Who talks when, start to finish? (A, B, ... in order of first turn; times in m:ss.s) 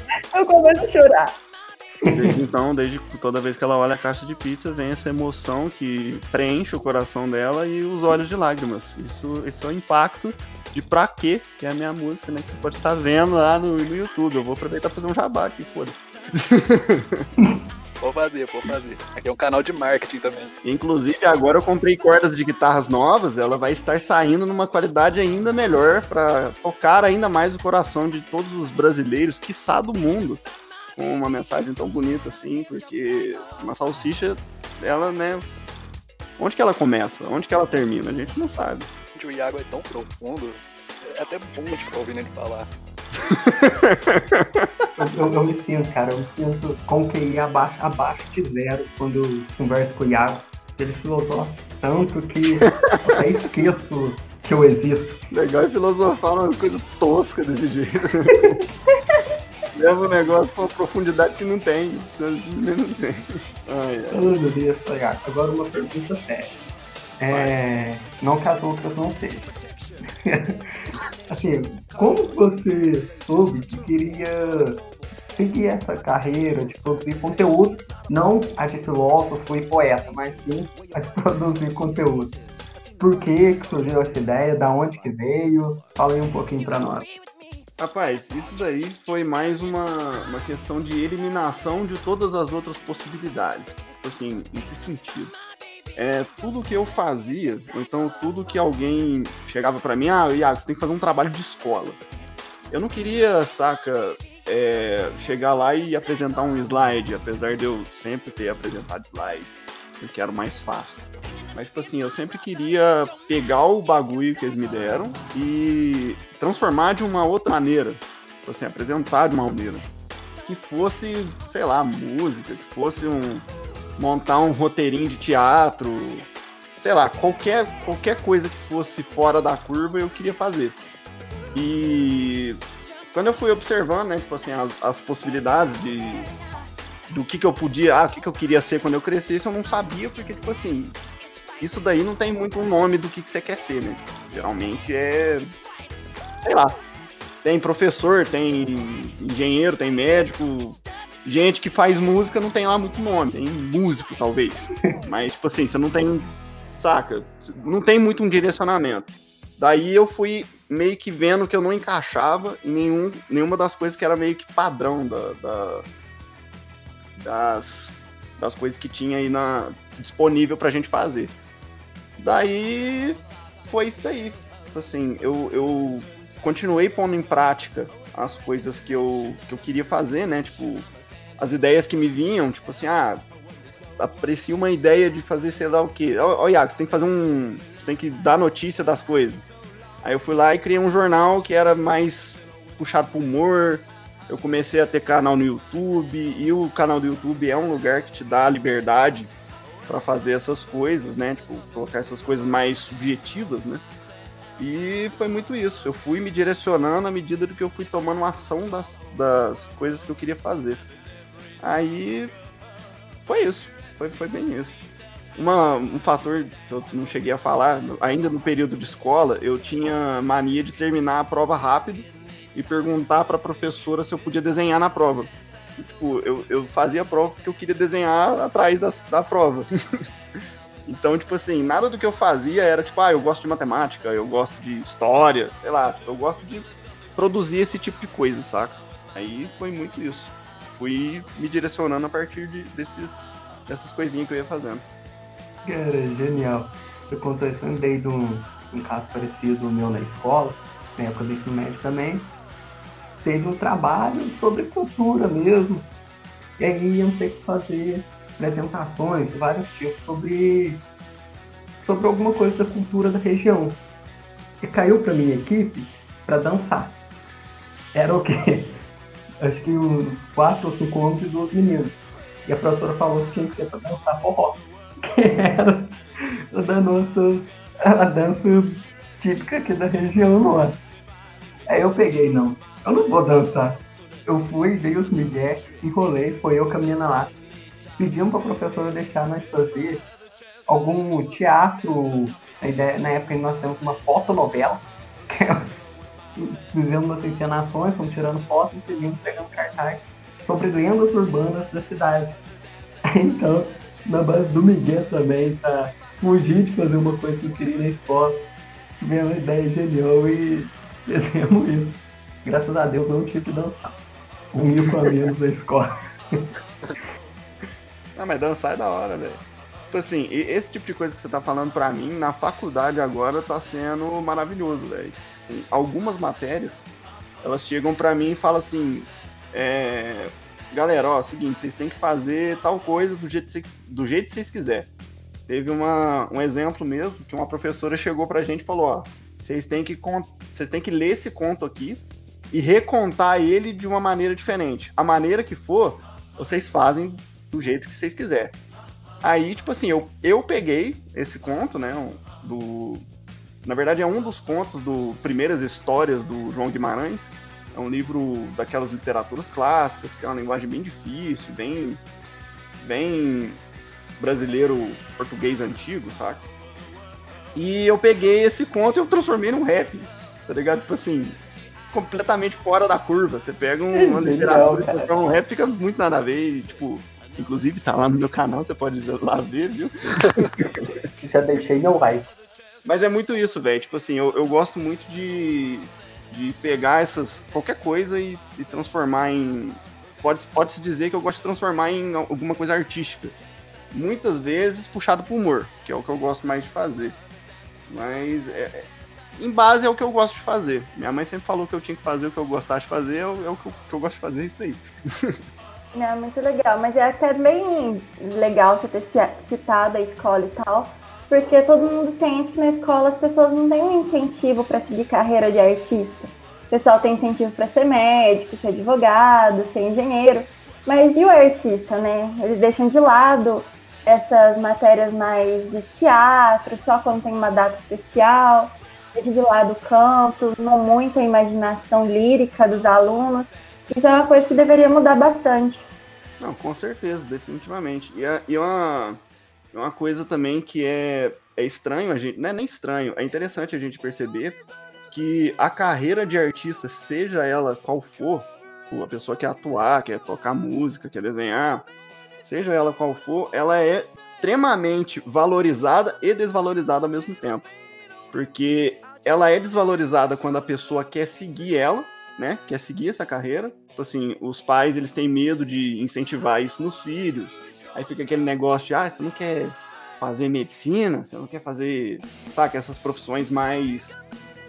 0:00.3-0:01.4 A
0:02.0-0:02.3 B
0:02.1-0:17.2 C
0:18.0-0:20.5 D
0:20.6-0:30.4 C
0:31.0-0:35.4 C
0:36.4-0:38.9 C
0:39.1-0:42.7 D
0:43.3-0:44.7 C
0:45.0-0:55.2 B
0:55.3-0:58.6 C
0:59.7-1:04.4 C
1:04.1-1:06.5 B
1:07.2-1:09.5 B
1:07.3-1:07.6 C
1:10.2-1:10.6 B
1:11.3-1:14.8 B
1:15.4-1:22.4 B
1:23.0-1:27.1 B
1:27.8-1:35.4 C
1:36.0-1:42.0 C
1:42.7-1:59.8 C
2:00.4-2:03.4 C
2:04.0-2:10.8 C
2:11.5-2:12.6 C
2:13.1-2:16.3 C
2:17.1-2:21.0 C
2:21.6-2:25.5 C
2:26.4-2:26.8 C
2:27.4-2:36.3 C
2:36.8-2:45.8 C
2:47.2-2:51.3 C
2:52.2-3:03.2 C
3:04.0-3:09.4 C
3:10.0-3:19.3 C
3:19.8-3:23.8 C
3:24.6-3:30.8 C
3:31.6-3:32.3 C
3:33.2-3:34.8 C
3:35.3-3:49.7 C
3:50.8-4:04.8 C
4:05.6-4:12.3 B
4:13.2-4:15.9 B
4:16.6-4:20.8 B
4:21.8-4:23.8 B
4:24.6-4:27.0 B
4:27.9-4:28.7 B
4:29.4-4:36.0 B
4:36.5-4:40.8 B
4:41.7-4:47.3 B
4:48.0-4:50.0 B
4:50.7-4:55.7 B
4:56.4-5:02.4 B
5:03.2-5:08.4 B
5:09.0-5:14.0 B
5:14.5-5:16.4 B
5:18.1-5:26.9 C
5:27.4-5:34.9 C
5:35.5-5:48.5 C
5:49.2-5:53.0 C
5:53.6-6:02.0 C
6:02.8-6:03.6 C
6:04.2-6:06.4 C
6:07.5-6:11.4 C
6:11.9-6:20.6 C
6:13.9-6:15.2 B
6:21.2-6:22.3 B
6:22.8-6:33.4 C
6:33.9-6:37.2 C
6:37.9-6:38.8 C
6:39.4-6:45.4 C
6:45.9-7:15.9 A
7:16.4-7:19.2 C
7:19.7-7:24.6 C
7:25.1-7:31.9 C
7:32.4-7:37.7 C
7:38.3-7:54.2 C